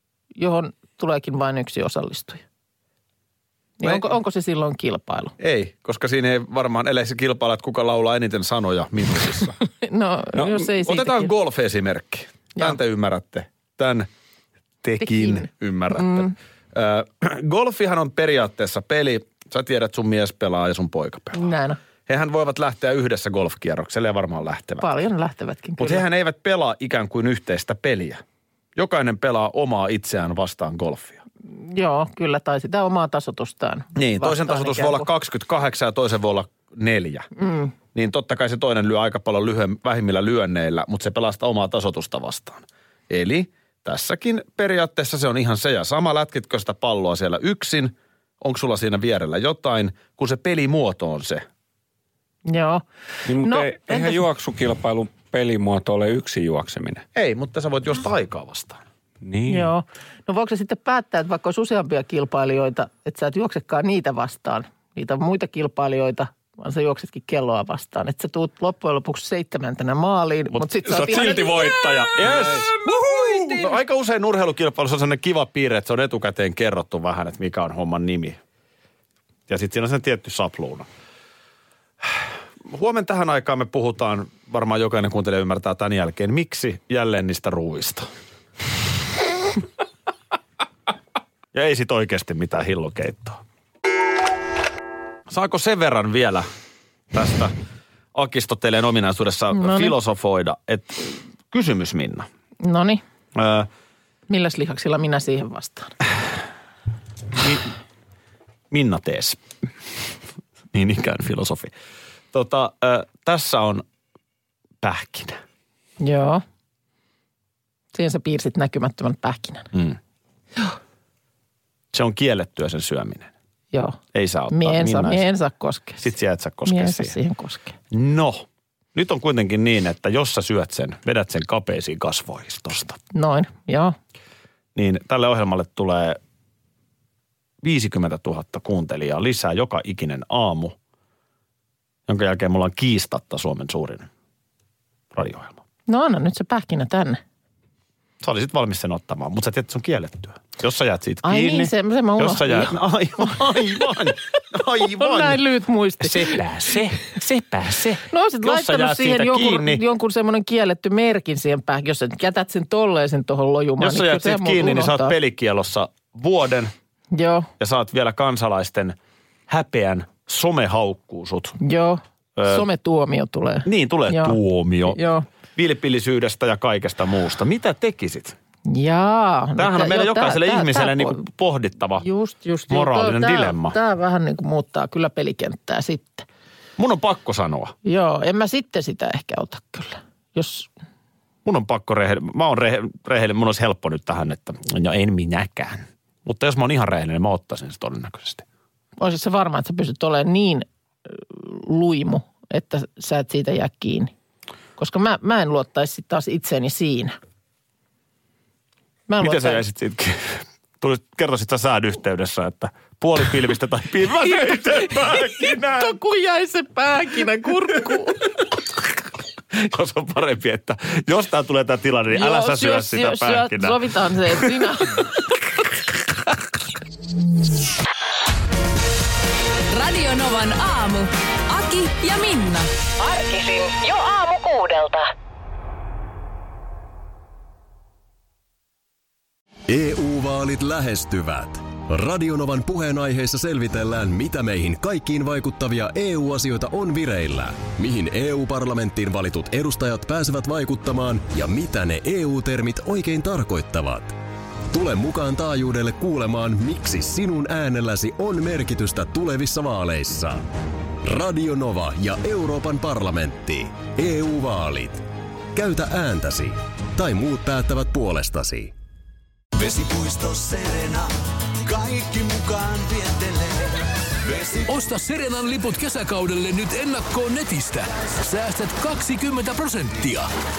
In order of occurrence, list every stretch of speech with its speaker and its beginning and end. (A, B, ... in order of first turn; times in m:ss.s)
0:00.4-0:02.4 A
0:03.8-0:05.3 A
0:05.4-0:09.6 B
0:09.6-0:11.3 A
0:10.3-0:14.1 B
0:14.8-0:21.5 B
0:15.0-0:16.3 A
0:21.3-0:21.8 A
0:22.1-0:24.9 B
0:24.8-0:26.0 A
0:25.8-0:28.2 B
0:28.8-0:31.2 B
0:31.6-0:35.1 A
0:33.9-0:37.3 B
0:37.4-0:37.7 A
0:37.9-0:51.4 B
0:52.5-0:52.8 A
0:53.3-0:57.0 C
0:53.4-0:54.2 A
0:57.1-0:58.8 B
0:59.2-0:59.7 C
0:59.5-1:11.7 A
1:10.9-1:18.4 B
1:10.9-1:13.5 C
1:19.5-1:20.9 B
1:22.0-1:28.1 B
1:31.5-1:33.4 B
1:35.3-1:36.5 B
1:37.1-1:37.5 B
1:38.1-1:42.3 B
1:39.5-1:39.9 A
1:42.6-1:43.0 A
1:43.3-1:43.7 B
1:44.3-1:45.9 A
1:47.4-1:47.7 B
1:48.7-1:49.4 B
1:50.7-1:51.7 B
1:52.3-1:53.8 B
1:54.8-1:55.4 B
1:56.0-1:56.4 A
1:57.9-1:59.7 A
1:59.7-2:00.0 B
2:01.9-2:03.3 B
2:03.7-2:06.1 A
2:04.1-2:05.3 B
2:06.0-2:07.1 B
2:06.6-2:07.8 A
2:07.9-2:13.0 B
2:13.1-2:14.0 A
2:14.7-2:16.2 B
2:17.6-2:20.8 B
2:22.1-2:24.1 B
2:25.1-2:25.6 B
2:25.9-2:27.2 A
2:28.2-2:35.4 B
2:31.2-2:33.8 A
2:34.8-2:36.4 A
2:36.0-2:39.8 B
2:38.1-2:45.2 A
2:43.8-2:46.7 B
2:47.1-2:47.5 A
2:47.6-2:49.0 B
2:49.5-2:51.6 B
2:51.6-2:54.4 A
2:52.4-2:52.6 B
2:53.6-2:55.0 B
2:54.9-2:55.2 A
2:55.6-2:58.3 B
2:58.7-3:01.2 A
2:59.6-3:02.0 B
3:02.0-3:06.2 A
3:02.7-3:03.8 B
3:06.8-3:07.7 B
3:07.8-3:10.7 A
3:11.4-3:18.4 B
3:19.0-3:24.1 A
3:24.8-3:27.1 A
3:29.1-3:29.6 A
3:29.2-3:36.0 B
3:34.2-3:38.3 A
3:39.5-3:43.8 B
3:42.1-3:45.1 A
3:44.3-3:44.6 B
3:49.7-3:52.7 D
3:53.0-3:55.1 E
3:59.7-4:14.2 F
4:14.7-4:20.5 F
4:21.0-4:28.7 F
4:29.5-4:34.7 G
4:34.7-4:40.3 H